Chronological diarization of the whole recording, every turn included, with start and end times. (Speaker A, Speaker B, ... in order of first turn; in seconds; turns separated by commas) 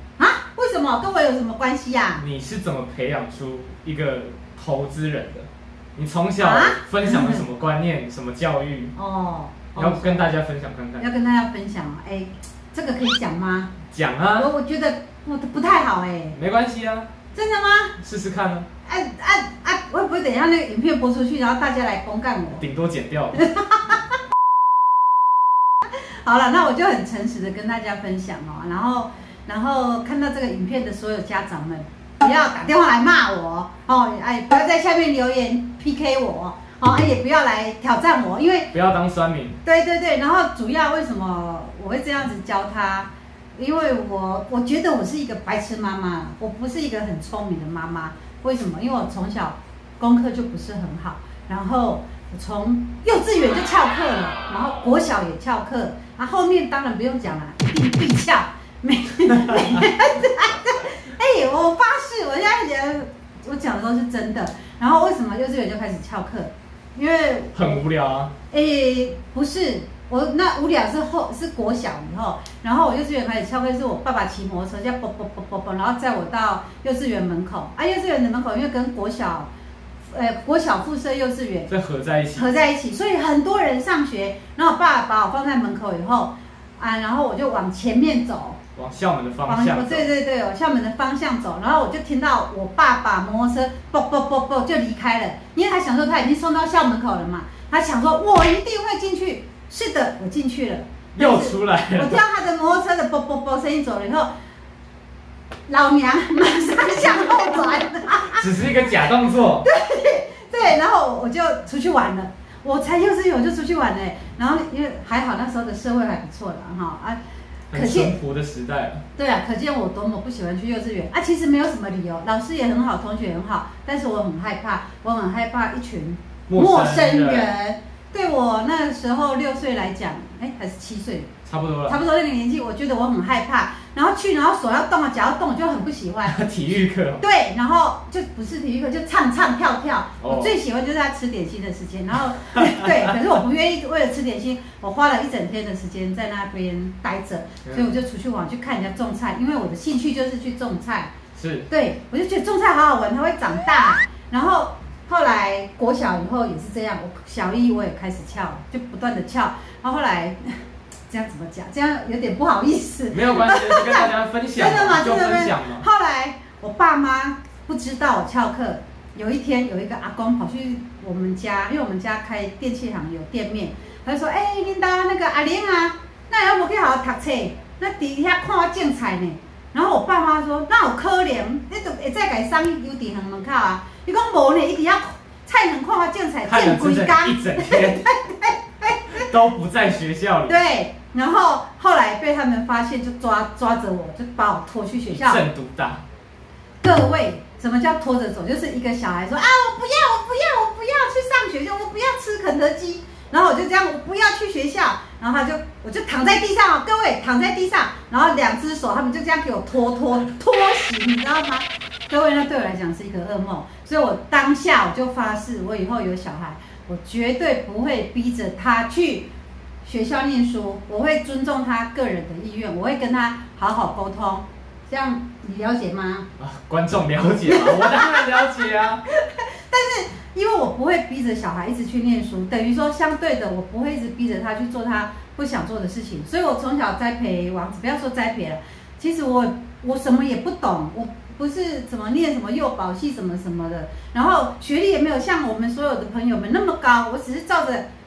Speaker A: 0.2-2.2, Speaker B: 2.2-8.9, Speaker A: 6.4-7.4, Speaker A: 9.0-10.3, Speaker B: 9.8-11.1, Speaker A: 11.0-13.7, Speaker B: 13.9-14.5, Speaker A: 14.4-16.4, Speaker B: 16.3-17.1, Speaker A: 17.3-18.0, Speaker B: 18.0-18.7, Speaker A: 18.9-22.6, Speaker B: 22.6-23.4, Speaker A: 23.4-24.1, Speaker A: 25.9-38.7, Speaker B: 38.7-39.6, Speaker A: 39.6-67.8, Speaker B: 67.5-68.3, Speaker A: 68.5-79.5, Speaker A: 80.1-81.7, Speaker B: 81.7-82.5, Speaker A: 82.4-88.6, Speaker B: 88.8-90.1, Speaker A: 89.5-104.3, Speaker B: 101.2-102.2, Speaker A: 105.7-108.5, Speaker B: 108.3-109.7, Speaker A: 109.6-117.2, Speaker B: 117.7-119.0, Speaker A: 117.7-118.2, Speaker A: 119.2-131.3, Speaker B: 126.5-127.5, Speaker B: 131.5-132.0, Speaker A: 131.9-136.4, Speaker B: 136.3-137.2, Speaker A: 137.2-151.1, Speaker B: 140.2-140.6, Speaker B: 142.6-142.9, Speaker B: 147.7-147.9, Speaker B: 151.3-151.7, Speaker A: 151.7-189.3, Speaker B: 163.1-165.9, Speaker B: 186.4-188.1, Speaker B: 189.1-190.6, Speaker A: 190.5-195.4, Speaker B: 195.1-196.0, Speaker A: 196.8-219.3, Speaker A: 219.8-226.3, Speaker B: 226.4-229.1, Speaker A: 227.5-247.8